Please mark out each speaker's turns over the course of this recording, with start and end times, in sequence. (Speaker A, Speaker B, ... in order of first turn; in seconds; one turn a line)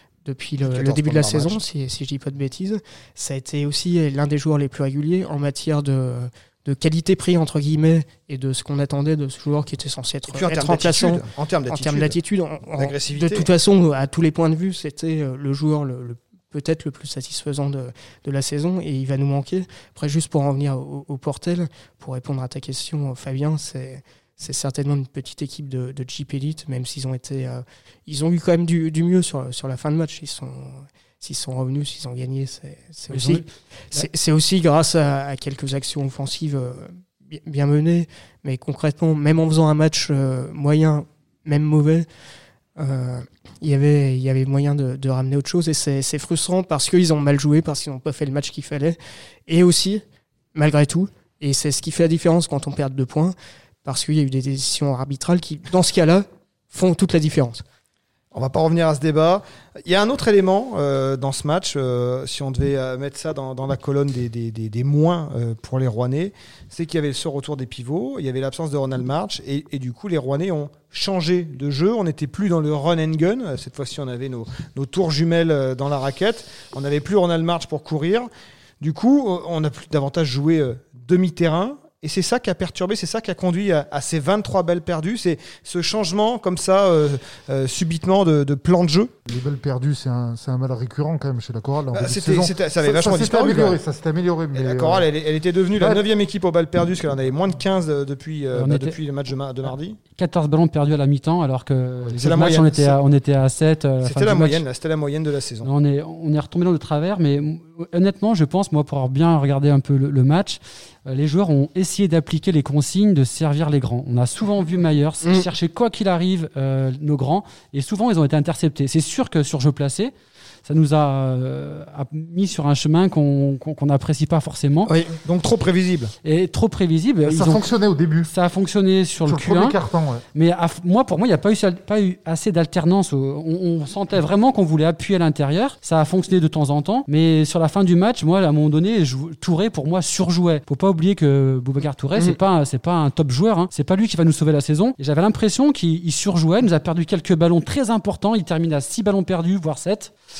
Speaker A: 0.2-42.0
Speaker B: 0.6-1.6
Speaker B: 10.3-12.1
Speaker B: 12.8-13.5
Speaker C: 33.1-33.4
Speaker A: 42.8-49.0
Speaker A: 49.5-50.0
Speaker A: 50.5-57.6
Speaker B: 58.3-78.3
Speaker B: 78.8-89.1
Speaker D: 89.3-95.1
Speaker B: 91.9-93.8
Speaker B: 94.5-100.0
Speaker D: 95.7-96.0
Speaker C: 98.5-99.0
Speaker C: 100.2-104.6
Speaker B: 102.2-103.0
Speaker B: 104.0-105.7
Speaker C: 105.6-120.1
Speaker C: 120.6-124.9
Speaker A: 124.8-125.2
Speaker B: 125.2-126.1
Speaker C: 126.2-127.7
Speaker D: 127.2-128.3
Speaker C: 128.3-129.8
Speaker D: 129.2-130.2
Speaker C: 130.3-150.1